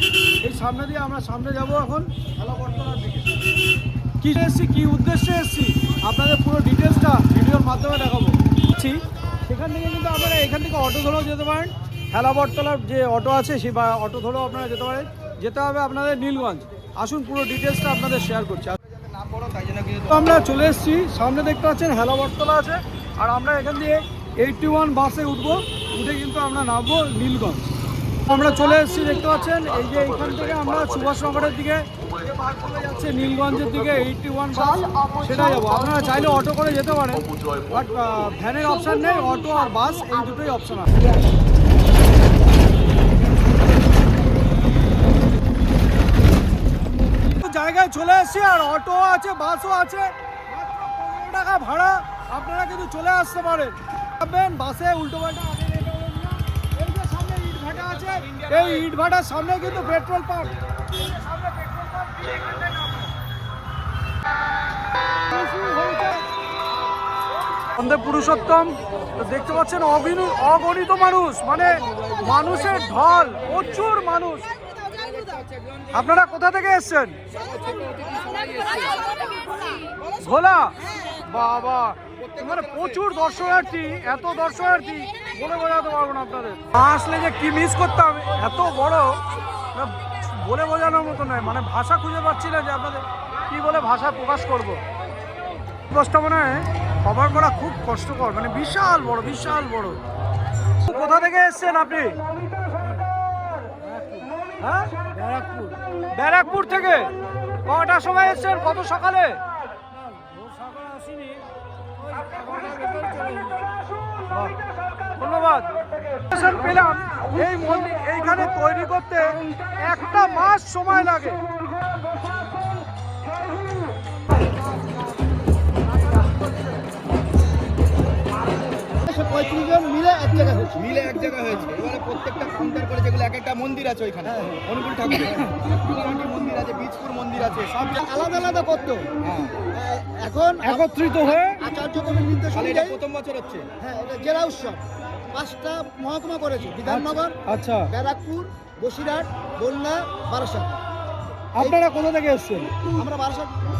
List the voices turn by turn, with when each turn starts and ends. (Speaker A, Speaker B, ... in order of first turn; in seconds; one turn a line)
Speaker A: 0.4-3.3
Speaker A: 4.2-18.8
Speaker B: 18.9-20.3
Speaker A: 20.1-27.7
Speaker A: 28.3-41.0
Speaker A: 47.3-63.1
Speaker A: 65.3-66.2
Speaker A: 67.7-74.5
Speaker B: 72.0-72.8
Speaker B: 74.7-75.9
Speaker A: 75.9-77.2
Speaker B: 77.3-79.1
Speaker A: 80.2-89.2
Speaker B: 82.2-83.0
Speaker A: 89.7-94.8
Speaker A: 95.9-100.0
Speaker A: 100.8-102.2
Speaker A: 103.8-107.1
Speaker A: 107.7-109.4
Speaker A: 110.1-111.4
Speaker A: 112.2-113.6
Speaker A: 114.3-114.6
Speaker A: 115.1-115.7
Speaker A: 116.3-121.4
Speaker C: 128.9-130.8
Speaker B: 130.8-137.7
Speaker C: 134.2-134.6
Speaker A: 137.7-138.1
Speaker C: 138.0-139.1
Speaker B: 139.2-139.5
Speaker C: 139.7-143.0
Speaker A: 140.6-141.6
Speaker B: 142.5-143.7
Speaker C: 143.8-147.4
Speaker A: 146.9-147.9
Speaker C: 147.9-150.8
Speaker A: 151.5-152.7
Speaker C: 152.9-153.6